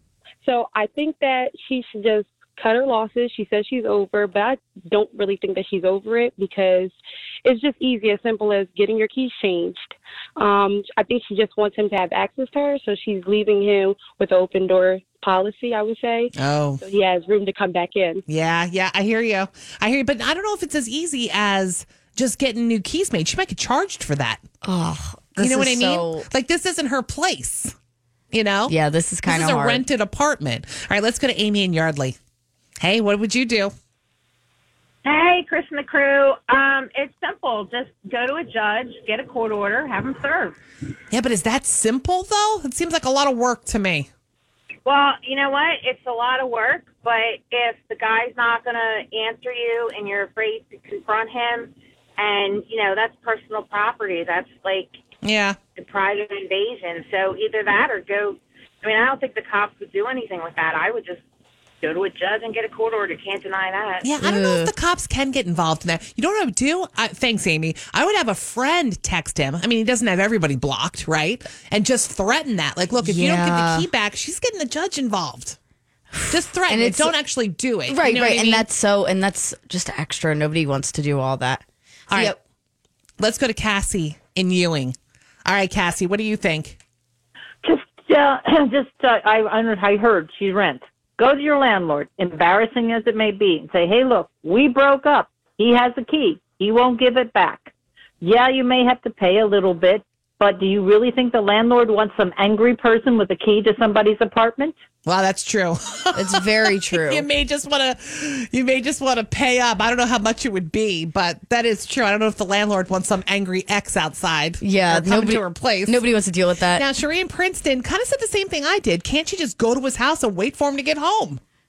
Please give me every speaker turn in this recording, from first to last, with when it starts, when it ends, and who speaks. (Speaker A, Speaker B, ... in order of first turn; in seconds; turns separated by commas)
Speaker A: 0.4-18.2, Speaker B: 16.4-16.8, Speaker B: 18.3-24.4, Speaker C: 24.6-26.3, Speaker B: 25.4-27.7, Speaker B: 28.3-32.2, Speaker C: 28.7-29.8, Speaker B: 32.8-33.7, Speaker D: 35.0-40.6, Speaker B: 41.1-44.1, Speaker D: 44.9-55.0, Speaker B: 55.2-55.6, Speaker D: 55.8-61.2, Speaker D: 61.8-64.1, Speaker B: 64.0-75.6, Speaker C: 64.2-64.7, Speaker C: 73.0-73.9, Speaker C: 76.1-77.1, Speaker B: 76.3-78.7, Speaker C: 77.9-82.4, Speaker B: 82.1-82.3, Speaker B: 83.2-86.8, Speaker E: 87.6-104.8, Speaker B: 105.0-116.0, Speaker C: 106.1-107.3, Speaker C: 114.6-116.9, Speaker B: 116.8-121.4